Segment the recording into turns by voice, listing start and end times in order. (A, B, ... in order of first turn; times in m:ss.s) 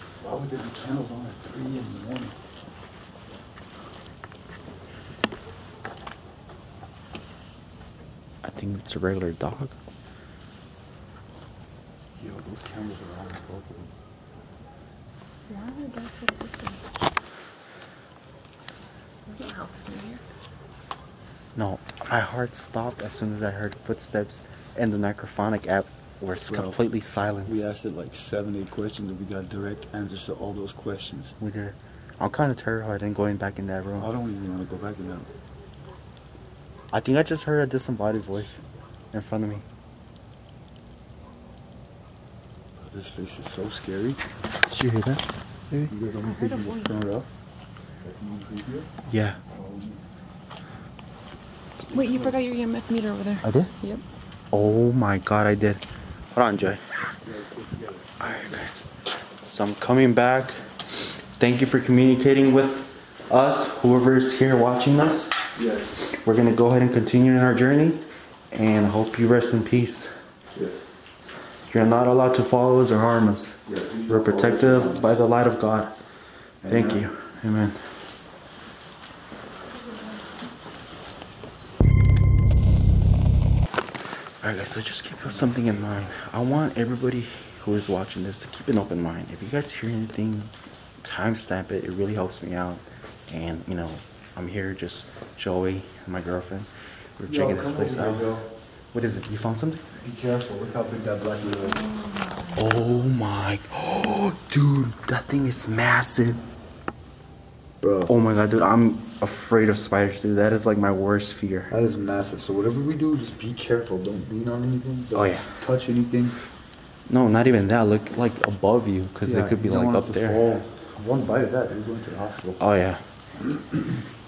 0:00.2-0:02.4 A
0:08.4-0:09.8 B
0:12.2-0:13.9 A
0:15.5-0:16.8 C
0:19.3-0:20.2 C
0:21.6-0:27.6 B
0:26.4-0:26.8 A
0:27.5-0:31.3 A
0:31.4-0:34.1 B
0:34.0-0:35.3 A
0:36.9-0:39.6 B
0:42.8-0:44.2 A
0:44.7-0:45.9 B
0:45.9-0:47.3 A
0:46.2-0:47.0 C
0:48.0-0:48.9 A
0:49.1-0:49.4 B
0:49.5-0:50.1 A
0:51.9-0:52.4 A
0:51.9-0:54.0 C
0:53.4-0:53.7 B
0:54.5-0:55.8 B
0:56.3-0:56.8 B
0:57.2-0:58.6 A
0:58.2-0:58.9 B
0:59.4-1:05.3 B
1:05.6-1:06.0 A
1:06.1-1:10.1 B
1:10.5-1:10.8 A
1:11.7-1:15.9 B
1:13.7-1:15.1 A
1:16.6-1:17.1 A
1:16.7-1:17.8 B
1:24.4-1:38.3 B
1:37.3-1:38.5 A
1:38.9-1:39.8 B
1:39.9-1:41.8 A
1:41.7-1:42.6 C
1:42.6-1:46.4 B
1:47.8-1:48.1 A
1:48.1-1:51.7 B
1:51.7-1:56.4 A
1:55.2-1:55.6 B
1:57.1-2:00.4 B
1:59.2-2:02.6 A
2:02.6-2:03.0 B
2:03.4-2:04.0 A